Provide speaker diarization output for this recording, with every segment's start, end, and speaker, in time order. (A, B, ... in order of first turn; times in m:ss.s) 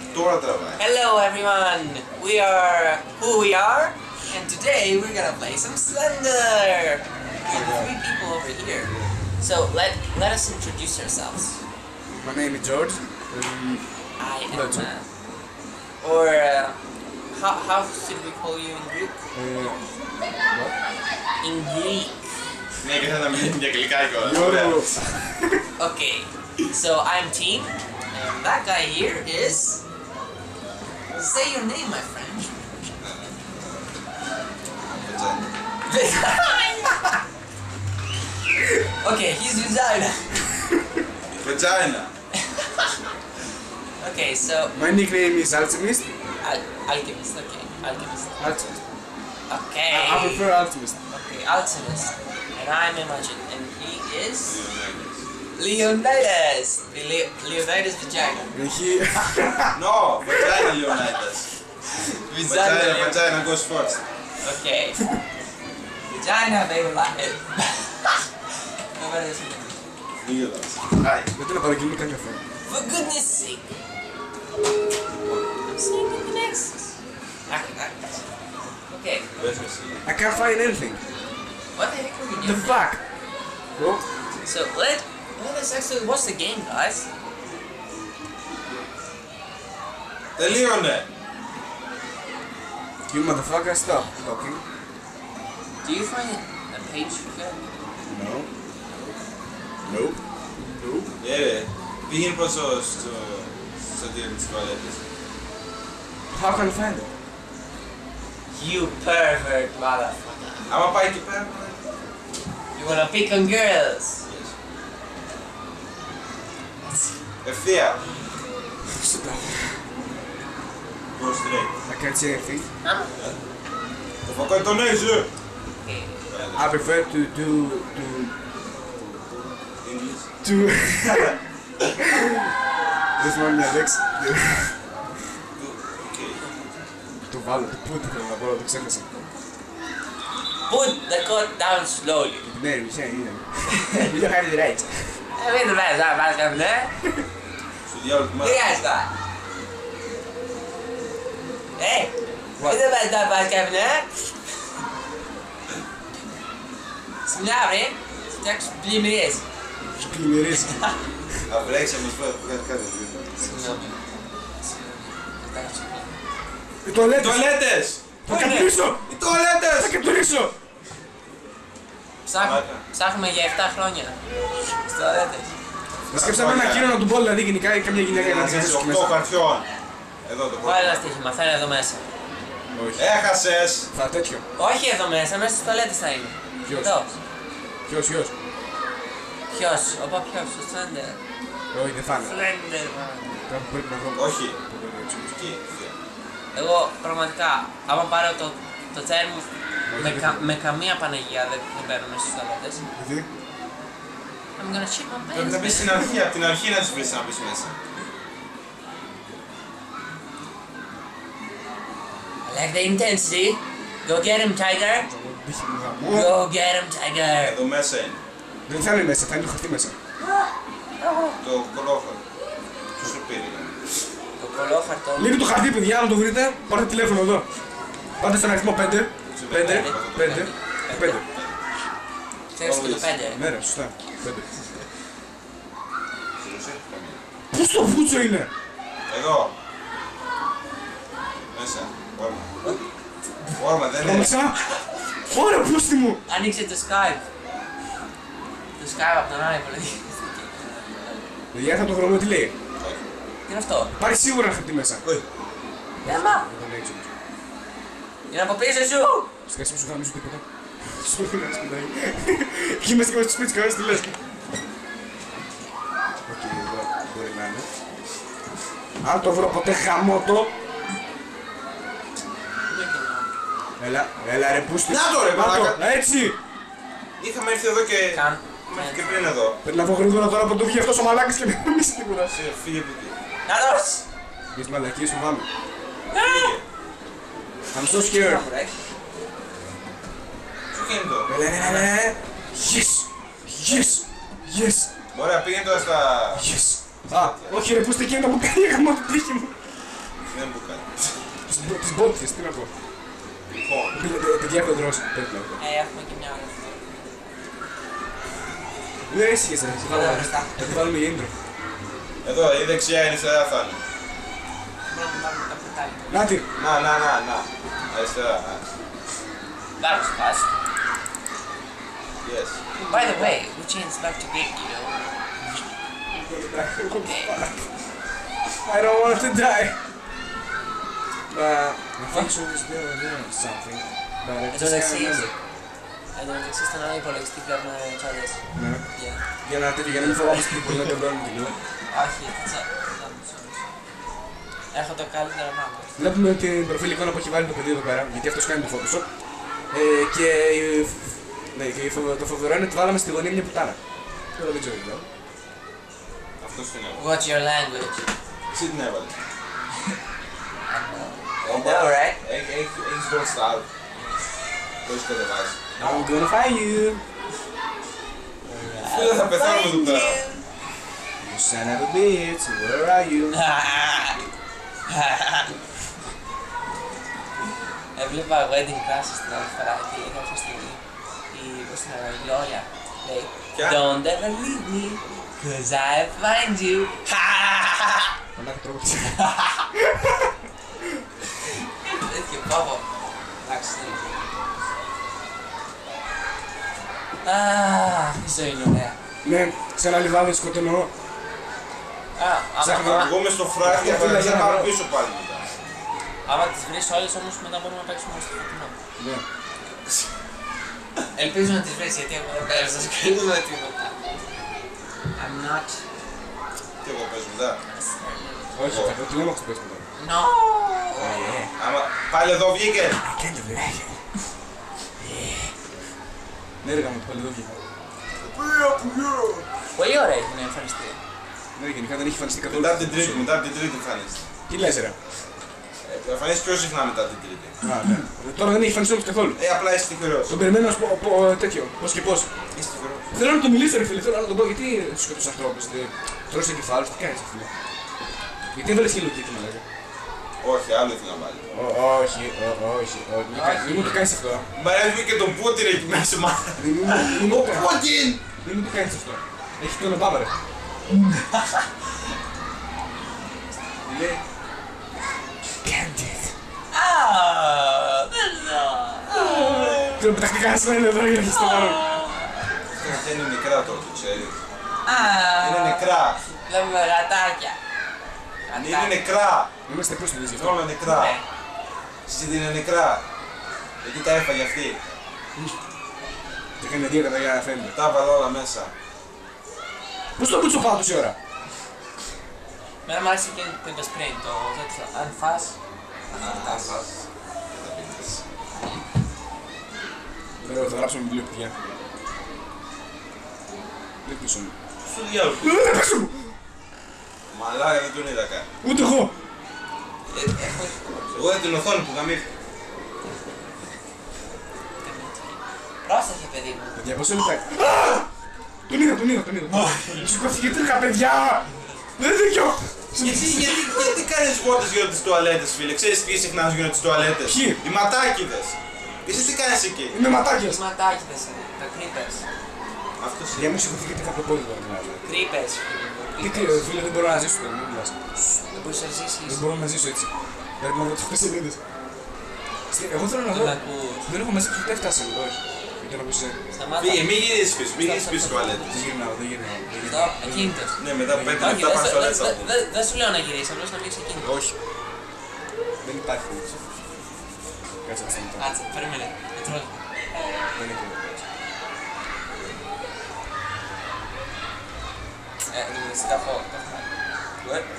0:00.1-0:00.8 A
0:00.8-0:11.6 B
0:07.5-0:07.9 C
0:12.1-0:13.8 C
0:14.2-0:15.1 B
0:14.5-0:14.9 C
0:16.0-0:16.8 B
0:17.3-0:19.1 B
0:19.3-0:19.8 C
0:21.4-0:22.4 B
0:22.8-0:24.9 A
0:24.2-0:25.6 C
0:25.8-0:29.8 B
0:31.1-0:32.5 B
0:33.0-0:33.6 A
0:34.8-0:35.5 A
0:35.9-0:37.2 B
0:38.7-0:40.4 B
0:41.4-0:42.1 A
0:42.6-0:42.9 B
0:44.0-0:44.8 B
0:44.7-0:46.1 C
0:46.4-0:48.5 B
0:48.4-0:48.8 C
0:49.5-0:50.5 B
0:49.9-0:51.0 C
0:51.1-0:54.6 B
0:54.4-0:55.2 A
0:55.6-0:58.6 B
0:58.5-0:59.8 C
0:59.8-1:01.5 A
1:00.4-1:00.7 C
1:01.9-1:03.3 B
1:02.5-1:04.0 A
1:04.4-1:05.1 B
1:06.1-1:08.3 B
1:09.0-1:09.8 B
1:10.2-1:11.4 A
1:11.4-1:12.4 C
1:12.7-1:13.7 B
1:15.1-1:15.4 A
1:15.6-1:18.3 B
1:18.9-1:19.3 B
1:19.4-1:20.0 A
1:20.0-1:21.0 C
1:21.8-1:22.8 B
1:22.4-1:23.0 C
1:23.8-1:24.0 C
1:24.4-1:27.1 B
1:30.4-1:31.1 A
1:33.1-1:34.6 C
1:35.8-1:37.7 B
1:38.1-1:38.5 C
1:38.9-1:39.2 B
1:39.8-1:41.1 C
1:41.2-1:45.0 A
1:46.3-1:47.1 C
1:48.5-1:50.7 B
1:50.7-1:51.9 A
1:52.7-1:54.2 B
1:54.3-1:54.5 A
1:57.4-1:58.0 A
1:58.8-1:59.9 C
2:01.2-2:01.7 A
2:01.9-2:02.7 C
2:03.1-2:03.4 A
2:04.2-2:05.3 A
2:05.8-2:06.2 B
2:06.3-2:06.9 A
2:06.5-2:08.4 C
2:08.9-2:10.3 A
2:10.4-2:11.4 C
2:12.0-2:12.5 C
2:13.2-2:14.8 C
2:15.6-2:16.4 A
2:16.4-2:16.7 B
2:17.3-2:19.1 C
2:20.7-2:22.5 B
2:22.4-2:25.2 C
2:25.4-2:26.9 B
2:27.9-2:28.6 A
2:28.4-2:29.1 B
2:31.8-2:34.3 B
2:32.6-2:32.9 C
2:37.2-2:39.5 B
2:40.0-2:41.5 C
2:40.6-2:41.0 B
2:41.5-2:43.8 A
2:43.4-2:44.1 B
2:44.6-2:46.2 B
2:46.8-2:47.4 C
2:47.1-2:48.2 A
2:48.2-2:50.6 C
2:48.3-2:48.7 B
2:49.1-2:50.0 A
2:52.2-2:54.2 B
2:52.4-2:52.8 A
2:54.8-2:55.6 B
2:56.1-2:57.0 A
2:56.1-2:59.1 C
2:57.9-2:59.7 A
3:00.2-3:01.1 A
3:00.6-3:02.1 B
3:02.7-3:03.1 C
3:03.0-3:03.9 A
3:03.9-3:04.4 C
3:04.6-3:07.2 B
3:06.6-3:07.0 C
3:07.9-3:08.3 C
3:09.5-3:11.2 B
3:11.7-3:12.4 C
3:12.1-3:13.4 B
3:13.4-3:15.4 C
3:14.2-3:14.6 A
3:15.3-3:16.0 A
3:16.5-3:22.9 B
3:19.9-3:20.4 C
3:23.0-3:23.3 C
3:24.6-3:26.0 B
3:25.3-3:27.8 A
3:32.4-3:35.1 B
3:35.0-3:36.4 C
3:36.0-3:37.6 B
3:37.4-3:38.2 A
3:38.7-3:40.0 C
3:41.0-3:41.4 B
3:41.4-3:42.2 A
3:43.0-3:43.8 A
3:44.4-3:45.4 B
3:45.2-3:47.5 C
3:48.2-3:51.2 C
3:49.3-3:50.4 A
3:49.5-3:51.2 B
3:51.3-3:51.6 A
3:52.5-3:53.4 B
3:52.6-3:53.2 A
3:53.2-3:54.5 C
3:56.4-3:57.2 A
3:57.5-3:58.5 C
3:59.1-3:59.5 A
4:01.5-4:02.8 A
4:03.6-4:04.4 A
4:04.0-4:04.7 C
4:05.3-4:06.2 C
4:06.3-4:07.3 B
4:08.8-4:11.3 B
4:11.5-4:12.6 C
4:13.5-4:13.9 B
4:13.9-4:15.0 C
4:16.0-4:16.4 B
4:16.0-4:17.1 C
4:18.3-4:19.3 B
4:19.5-4:24.1 C
4:26.3-4:27.7 C
4:29.0-4:30.5 C
4:32.7-4:33.3 B
4:33.8-4:36.4 C
4:34.9-4:35.9 A
4:37.2-4:39.6 A
4:38.1-4:39.3 B
4:39.6-4:42.4 C
4:42.3-4:43.2 A
4:43.5-4:44.0 B
4:44.5-4:45.5 C
4:46.1-4:46.5 B
4:46.2-4:46.6 A
4:47.7-4:48.4 C
4:47.8-4:48.8 B
4:50.7-4:51.3 A
4:51.3-4:54.9 C
4:51.5-4:51.9 B
4:55.1-4:56.5 A
4:56.4-4:59.8 C
4:57.1-4:57.6 A
5:00.3-5:00.9 A
5:01.5-5:02.7 C
5:03.5-5:04.0 A
5:03.9-5:05.6 C
5:05.6-5:07.0 B
5:09.1-5:11.3 C
5:09.8-5:10.8 B
5:12.2-5:13.8 A
5:14.9-5:16.4 B
5:16.1-5:16.5 C
5:16.6-5:18.6 A
5:19.8-5:20.5 B
5:22.2-5:22.6 A
5:22.8-5:23.4 C
5:22.8-5:25.1 B
5:26.1-5:27.7 C
5:27.0-5:27.4 B
5:28.6-5:29.8 C
5:31.3-5:35.3 C
5:34.5-5:35.3 B
5:36.1-5:39.2 B
5:38.5-5:38.8 C
5:39.4-5:41.6 C
5:39.9-5:40.8 B
5:41.9-5:43.7 B
5:44.7-5:45.9 B
5:46.0-5:49.1 C
5:49.7-5:53.8 C
5:54.4-5:55.1 C
5:56.4-5:57.1 A
5:57.0-5:58.1 B
5:58.5-5:59.2 A
6:00.7-6:02.2 B
6:01.4-6:03.7 A
6:04.8-6:05.7 A
6:05.8-6:06.1 B
6:05.8-6:07.0 C
6:08.4-6:08.9 C
6:08.7-6:10.5 B
6:08.8-6:10.2 A
6:11.2-6:13.4 C
6:13.3-6:14.2 B
6:14.9-6:15.6 B
6:18.0-6:28.1 B
6:23.5-6:23.8 A
6:28.4-6:29.2 C
6:29.1-6:29.7 B
6:29.8-6:30.3 C
6:31.8-6:32.8 B
6:33.4-6:34.4 B
6:37.2-6:39.0 B
6:39.2-6:40.9 C
6:42.2-6:43.1 B
6:42.6-6:43.1 C
6:42.8-6:45.5 A
6:43.6-6:44.7 C
6:46.2-6:48.8 B
6:49.0-6:49.2 C
6:51.2-6:54.0 B
6:55.2-6:55.8 B
6:56.8-6:57.6 A
6:57.7-6:58.6 B
6:58.5-6:59.9 C
6:58.7-6:59.0 A
7:00.0-7:01.0 B
7:01.0-7:03.0 A
7:01.0-7:01.5 C
7:03.0-7:04.0 C
7:05.0-7:05.5 B
7:06.6-7:07.6 C
7:08.1-7:09.5 A
7:09.8-7:11.0 B
7:11.6-7:13.3 C
7:12.5-7:14.3 A
7:14.5-7:15.0 C
7:15.8-7:17.6 A
7:17.6-7:19.4 C
7:19.4-7:20.4 A
7:20.3-7:22.3 C
7:22.5-7:23.2 A
7:23.1-7:27.5 C
7:28.5-7:29.6 C
7:30.4-7:31.5 A
7:31.5-7:34.5 C
7:33.3-7:34.1 B
7:34.6-7:38.2 A
7:36.6-7:37.7 C
7:38.4-7:40.4 C
7:40.9-7:41.7 B
7:43.9-7:44.2 C
7:45.6-7:46.4 C
7:46.7-7:50.0 B
7:49.9-7:52.0 C
7:51.2-7:52.6 B
7:52.8-7:54.4 A
7:54.8-7:57.6 B
7:55.4-7:56.2 A
7:58.5-7:59.0 B
7:58.5-7:59.5 A
7:59.7-8:00.6 C
8:00.4-8:01.2 A
8:00.8-8:01.2 B
8:02.1-8:03.0 A
8:03.8-8:04.8 A
8:06.6-8:07.7 C
8:07.7-8:08.7 A
8:10.2-8:11.2 C
8:12.8-8:15.6 B
8:16.1-8:16.8 B
8:16.1-8:18.2 A
8:20.4-8:21.6 C
8:24.0-8:24.6 C
8:24.8-8:25.7 A
8:25.4-8:26.3 C
8:27.3-8:28.5 A
8:28.6-8:29.1 C
8:30.1-8:31.2 B
8:31.1-8:32.3 A
8:34.8-8:36.8 B
8:36.8-8:38.1 C
8:38.7-8:43.8 C
8:39.5-8:40.2 B
8:43.0-8:50.0 A
8:47.2-8:47.6 C
8:49.9-8:50.6 C
8:50.4-8:52.3 B
8:53.0-8:53.6 A
8:53.3-8:55.1 C
8:55.0-8:56.7 B
8:56.2-8:58.4 C
8:58.5-8:59.4 B
8:59.3-9:01.6 C
9:02.7-9:06.4 C
9:03.3-9:04.1 B
9:06.5-9:08.9 B
9:06.8-9:08.9 A
9:08.7-9:11.6 C
9:09.8-9:10.8 B
9:10.8-9:12.6 A
9:11.4-9:14.3 B
9:14.2-9:14.6 C
9:15.8-9:16.6 C
9:17.8-9:18.5 C
9:18.4-9:19.9 B
9:20.5-9:21.3 C
9:25.5-9:26.9 B
9:27.4-9:27.7 B